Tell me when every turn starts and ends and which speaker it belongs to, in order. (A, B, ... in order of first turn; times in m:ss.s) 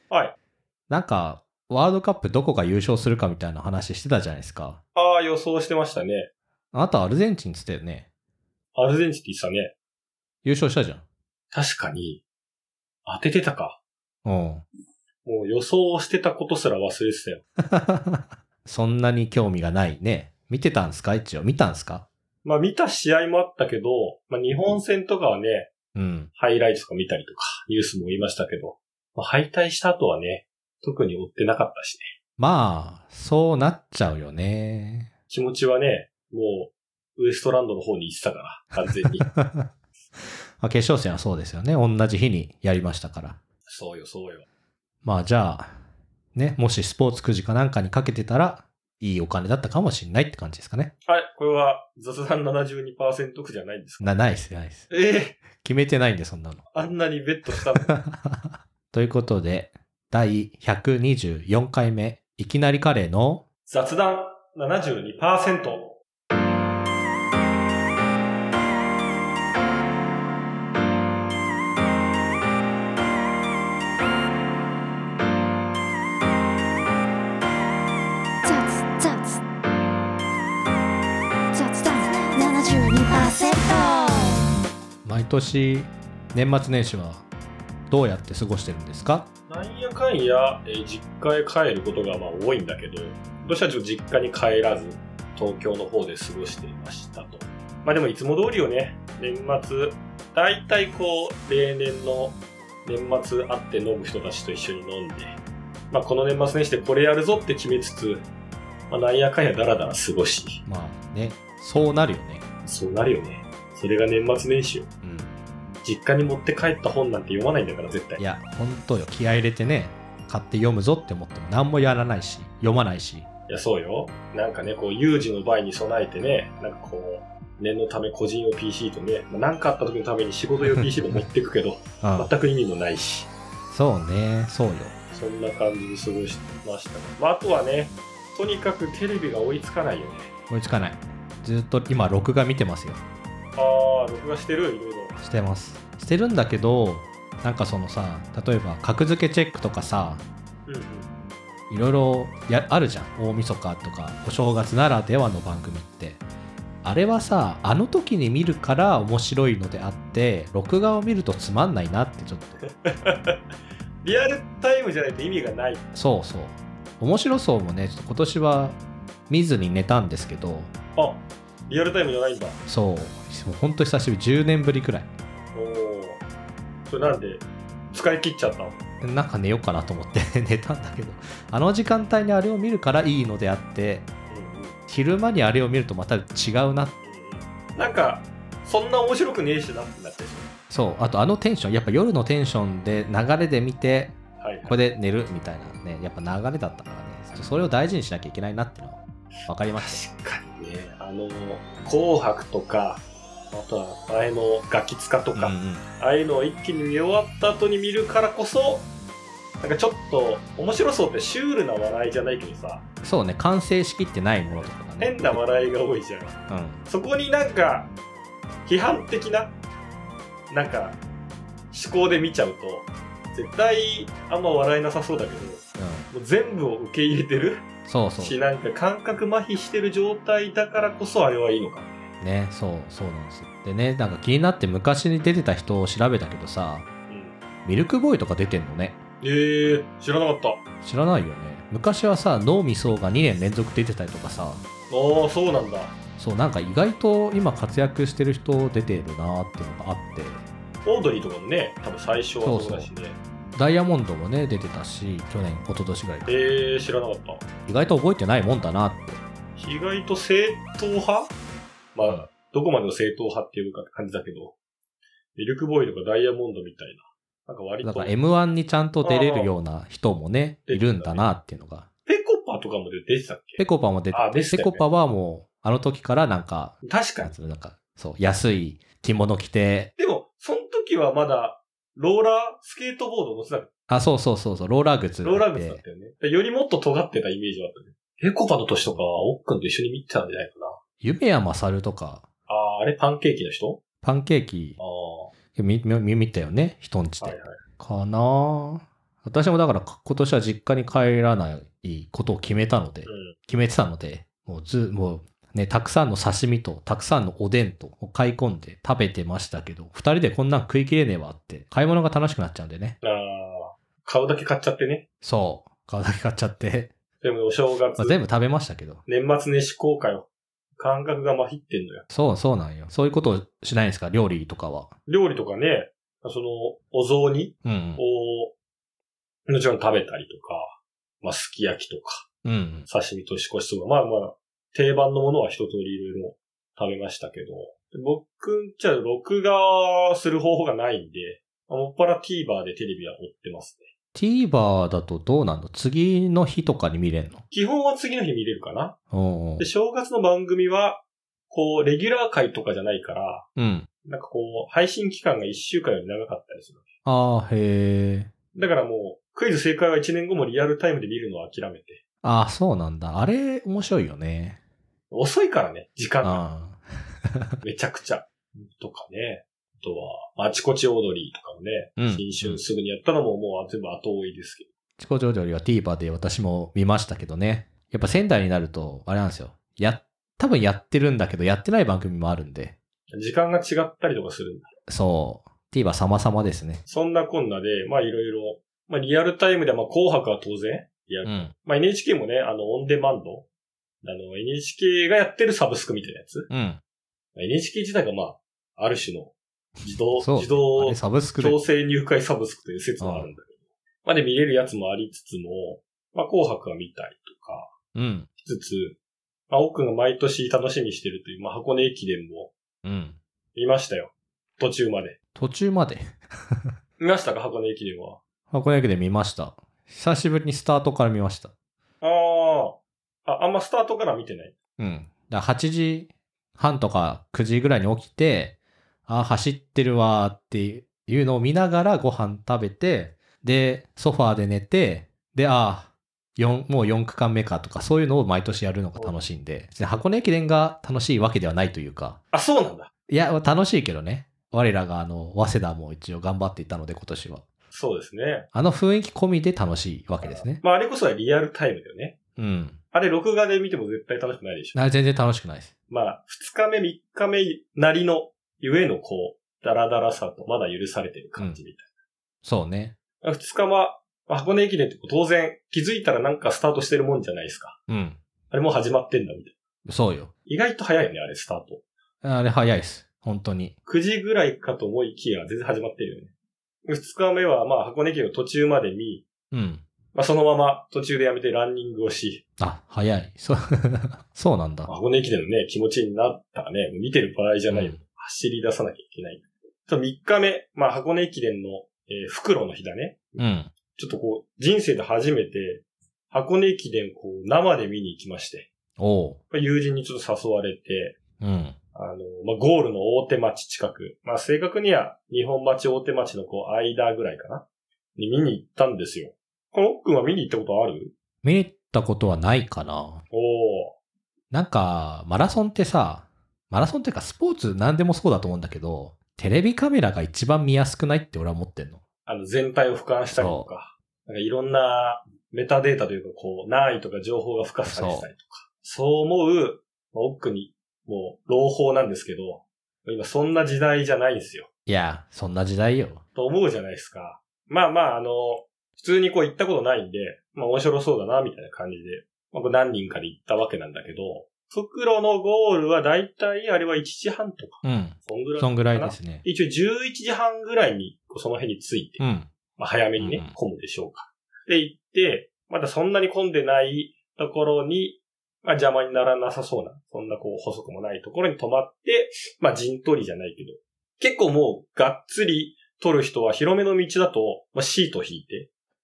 0:00.1-0:00.4 A
0:00.9-0:04.8 B
0:05.0-0:06.3 A
0:06.7-0:08.1 B
0:08.8-0:09.7 A
0:10.4-0:11.0 B
0:11.5-0:12.2 A
0:13.1-0:13.8 A
0:14.2-0:14.6 B
0:15.2-0:17.4 A
0:17.6-0:22.0 B
0:22.4-0:25.7 A
0:26.0-0:26.3 B
0:26.4-0:32.1 A
0:32.4-0:35.1 B
0:35.3-0:39.3 A
0:39.2-0:39.7 B
0:40.6-0:43.4 B
0:43.7-0:44.5 A
0:45.0-0:45.8 B
0:46.3-0:50.9 B
0:51.0-0:54.1 A
0:54.0-0:54.9 B
0:54.9-0:55.4 A
0:55.6-0:56.7 B
0:56.7-0:58.0 A
0:57.9-1:03.4 B
1:03.7-1:06.0 A
1:18.4-1:19.4 C
1:21.5-1:24.4 C
1:25.0-1:27.3 B
1:27.9-1:29.3 B
1:29.5-1:45.4 A
1:45.9-1:48.2 A
1:48.9-1:50.6 A
1:50.7-1:52.5 B
1:52.6-1:54.9 A
1:55.0-1:55.3 B
1:55.8-1:58.2 A
1:58.2-2:03.3 B
2:03.5-2:13.3 A
2:10.6-2:11.2 B
2:12.0-2:12.3 B
2:13.7-2:15.0 B
2:15.1-2:20.3 A
2:20.5-2:23.0 B
2:23.6-2:25.2 A
2:25.2-2:30.2 B
2:30.7-2:31.1 A
2:31.7-2:36.2 B
2:36.8-2:42.6 B
2:42.8-2:43.4 A
2:44.0-2:45.8 A
2:45.9-2:48.8 B
2:49.3-2:50.7 B
2:51.0-2:52.6 A
2:52.7-2:55.1 B
2:55.5-2:56.2 A
2:56.9-2:58.8 A
2:59.0-3:04.1 B
3:04.3-3:04.8 A
3:04.9-3:07.0 B
3:07.0-3:10.5 A
3:10.7-3:20.0 B
3:14.4-3:14.8 A
3:19.8-3:28.9 A
3:25.3-3:25.8 B
3:29.6-3:32.8 A
3:33.0-3:35.4 B
3:34.5-3:37.9 A
3:36.5-3:36.8 B
3:38.6-3:39.6 A
3:40.5-3:41.0 A
3:41.7-3:52.1 A
3:45.8-3:46.1 B
3:47.8-3:48.4 B
3:52.2-3:56.9 B
3:57.1-3:57.4 A
3:57.6-3:59.0 B
3:59.2-4:00.6 A
4:00.8-4:04.6 B
4:04.9-4:06.0 A
4:06.2-4:10.4 B
4:10.8-4:13.2 A
4:12.4-4:12.9 B
4:13.6-4:16.4 B
4:16.3-4:17.4 A
4:17.7-4:19.2 B
4:19.6-4:21.3 A
4:21.9-4:24.6 A
4:25.4-4:28.1 A
4:27.8-4:31.9 B
4:29.0-4:29.5 A
4:30.7-4:31.3 A
4:32.1-4:34.8 A
4:33.6-4:39.9 B
4:36.8-4:37.3 A
4:40.0-4:43.7 A
4:43.9-4:45.8 B
4:45.2-4:50.8 A
4:51.0-4:52.2 B
4:52.5-4:53.8 A
4:54.0-4:54.8 B
4:54.8-4:55.3 A
4:55.5-5:13.0 B
4:57.2-4:57.6 A
5:03.1-5:03.4 A
5:13.0-5:15.0 A
5:15.2-5:16.9 B
5:17.2-5:18.2 A
5:18.0-5:19.0 B
5:19.1-5:22.0 A
5:22.1-5:24.9 B
5:25.1-5:28.5 A
5:27.6-5:28.0 B
5:29.5-5:32.3 A
5:32.4-5:32.9 B
5:32.9-5:43.9 A
5:44.2-5:47.4 B
5:47.5-5:49.0 A
5:49.1-5:49.7 B
5:49.6-5:53.5 A
5:53.6-5:53.9 B
5:54.0-5:56.8 A
5:57.0-5:58.3 B
5:58.6-6:02.0 A
6:02.2-6:04.6 B
6:05.1-6:06.4 A
6:06.2-6:06.8 B
6:07.6-6:14.7 A
6:12.0-6:12.6 B
6:15.0-6:22.8 B
6:23.1-6:24.8 A
6:24.9-6:26.8 B
6:26.9-6:33.5 A
6:31.2-6:31.5 B
6:34.0-6:36.5 A
6:36.5-6:36.8 B
6:37.4-6:43.5 A
6:40.2-6:41.6 B
6:43.0-6:43.3 B
6:44.0-6:47.7 A
6:48.0-6:48.3 B
6:48.4-6:49.0 A
6:49.5-6:52.5 A
6:52.8-6:53.2 B
6:53.6-6:55.2 A
6:55.4-6:56.7 B
6:57.0-6:58.2 A
6:58.5-7:01.5 B
7:02.0-7:04.5 A
7:04.8-7:08.6 B
7:09.1-7:22.2 B
7:22.3-7:22.9 A
7:23.1-7:27.4 B
7:27.7-7:28.5 A
7:28.5-7:30.6 B
7:30.2-7:32.2 A
7:32.4-7:32.8 B
7:32.9-7:34.8 A
7:34.8-7:35.7 B
7:35.9-7:41.9 A
7:42.4-7:43.0 B
7:43.2-7:47.8 A
7:47.9-7:48.2 B
7:48.5-7:49.6 A
7:49.9-7:50.3 B
7:50.5-7:51.8 A
7:52.2-7:53.7 B
7:53.9-7:56.3 A
7:56.9-7:59.3 A
7:59.5-7:59.8 B
8:00.1-8:02.4 A
8:02.6-8:04.9 B
8:04.9-8:13.4 A
8:07.7-8:08.0 B
8:13.4-8:13.7 B
8:14.0-8:18.7 A
8:19.0-8:19.4 B
8:19.5-8:21.2 A
8:21.4-8:21.8 B
8:22.0-8:31.1 A
8:31.4-8:33.2 B
8:33.3-8:34.0 A
8:34.5-8:42.0 B
8:42.3-8:54.7 A
8:43.3-8:43.7 B
8:47.9-8:48.3 B
8:54.9-8:56.2 B
8:56.4-9:12.2 A
9:07.8-9:09.4 B
9:12.2-9:12.5 B
9:12.8-9:28.7 A
9:13.2-9:13.6 B